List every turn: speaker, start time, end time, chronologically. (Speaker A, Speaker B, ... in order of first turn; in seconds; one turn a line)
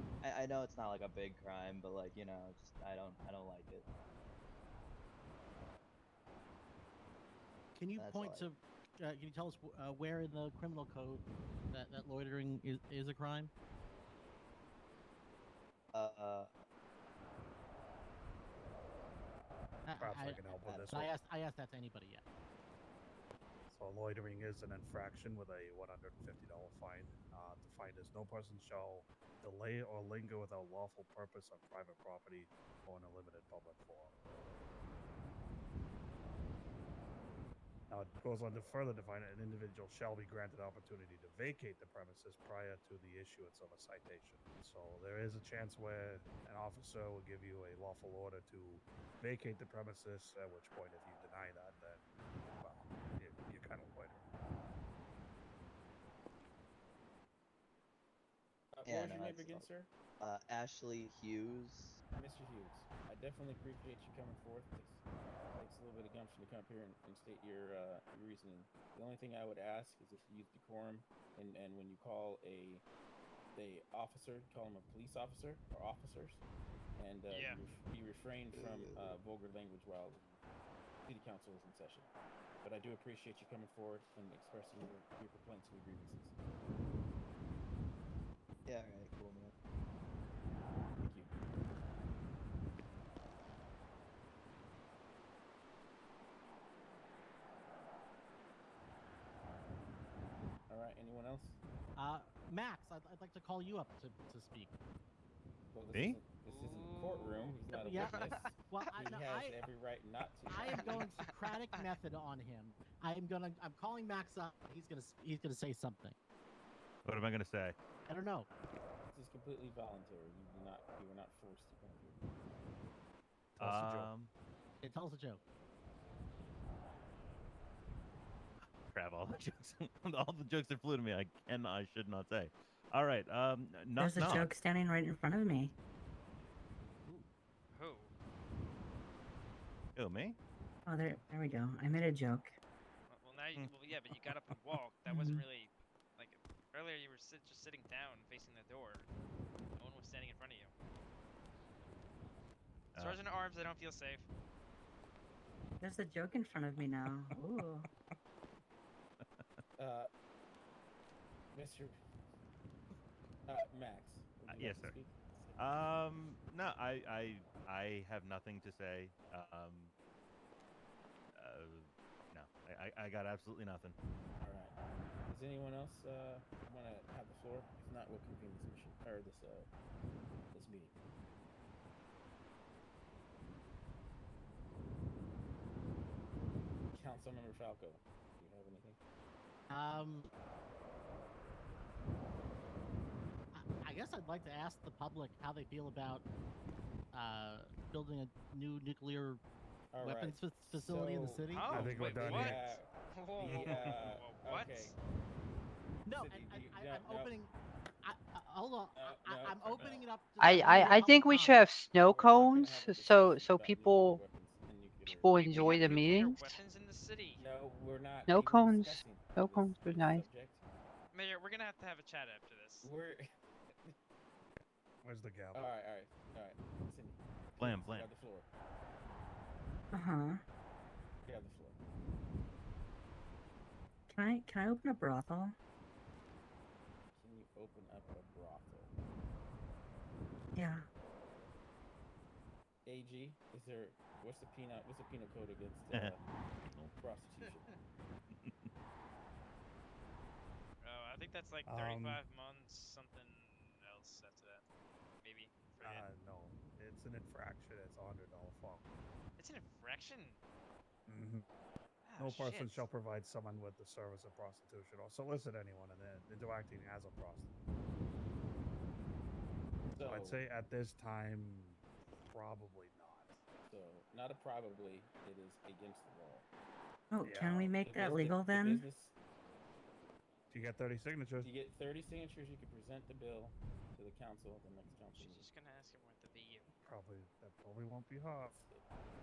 Speaker A: 0.2-3.8
Speaker B: 7.8-13.5
Speaker A: 8.0-8.5
Speaker A: 15.9-16.5
Speaker B: 19.9-20.4
Speaker C: 20.0-21.1
Speaker A: 20.6-21.1
Speaker B: 20.9-22.2
Speaker C: 23.7-34.1
Speaker C: 37.9-54.2
Speaker D: 58.7-59.9
Speaker A: 58.8-59.7
Speaker A: 60.2-62.0
Speaker D: 62.1-65.0
Speaker D: 65.5-72.8
Speaker D: 73.5-76.4
Speaker D: 77.0-80.4
Speaker E: 77.3-77.6
Speaker A: 78.5-79.2
Speaker D: 81.0-82.1
Speaker D: 82.6-86.3
Speaker A: 88.7-89.5
Speaker D: 91.0-91.3
Speaker D: 100.7-101.6
Speaker B: 102.0-104.7
Speaker D: 105.7-111.0
Speaker F: 105.9-106.2
Speaker E: 106.4-108.9
Speaker B: 107.7-109.6
Speaker B: 110.5-116.1
Speaker E: 110.5-111.8
Speaker F: 117.0-117.8
Speaker B: 118.0-118.5
Speaker D: 119.1-122.2
Speaker F: 123.6-124.3
Speaker C: 123.6-124.1
Speaker B: 124.8-125.4
Speaker F: 128.9-134.5
Speaker G: 134.0-135.7
Speaker E: 137.7-138.1
Speaker F: 139.9-140.4
Speaker G: 140.9-142.6
Speaker E: 143.1-149.1
Speaker G: 145.1-145.4
Speaker E: 149.8-150.7
Speaker F: 152.9-153.2
Speaker E: 153.0-154.3
Speaker G: 155.8-157.9
Speaker D: 159.8-160.1
Speaker D: 161.5-161.9
Speaker D: 163.5-165.8
Speaker F: 164.5-165.0
Speaker F: 165.6-169.9
Speaker F: 171.3-174.0
Speaker D: 174.4-174.8
Speaker D: 175.3-179.7
Speaker D: 180.5-180.9
Speaker D: 186.9-189.0
Speaker B: 189.7-190.3
Speaker B: 193.5-196.2
Speaker B: 197.1-199.4
Speaker D: 199.9-204.9
Speaker B: 200.0-202.4
Speaker E: 201.5-205.0
Speaker C: 201.7-202.7
Speaker B: 206.1-211.7
Speaker D: 206.1-207.4
Speaker D: 208.9-210.1
Speaker H: 210.4-214.2
Speaker D: 212.0-215.7
Speaker H: 215.1-216.6
Speaker E: 215.4-217.4
Speaker D: 217.4-220.6
Speaker H: 218.3-220.2
Speaker E: 221.1-222.9
Speaker D: 222.8-223.9
Speaker C: 225.0-225.7
Speaker D: 225.5-228.5
Speaker F: 227.6-228.1
Speaker G: 229.9-230.4
Speaker D: 231.2-231.8
Speaker G: 234.1-235.6
Speaker D: 237.2-238.9
Speaker G: 240.6-240.9
Speaker D: 242.8-246.2
Speaker F: 246.7-246.9
Speaker D: 247.0-247.8
Speaker F: 248.4-248.7
Speaker E: 250.8-254.6
Speaker C: 251.7-252.2
Speaker E: 255.2-256.1
Speaker C: 255.8-258.9
Speaker E: 259.4-260.4
Speaker C: 261.1-261.4
Speaker E: 262.0-262.9
Speaker C: 262.2-267.5
Speaker D: 269.9-270.4
Speaker C: 270.0-273.3
Speaker D: 273.6-276.4
Speaker G: 277.1-278.8
Speaker C: 277.2-277.8
Speaker D: 277.8-279.1
Speaker C: 280.5-281.5
Speaker D: 281.4-285.5
Speaker E: 285.1-286.7
Speaker C: 286.8-288.6
Speaker D: 288.4-288.8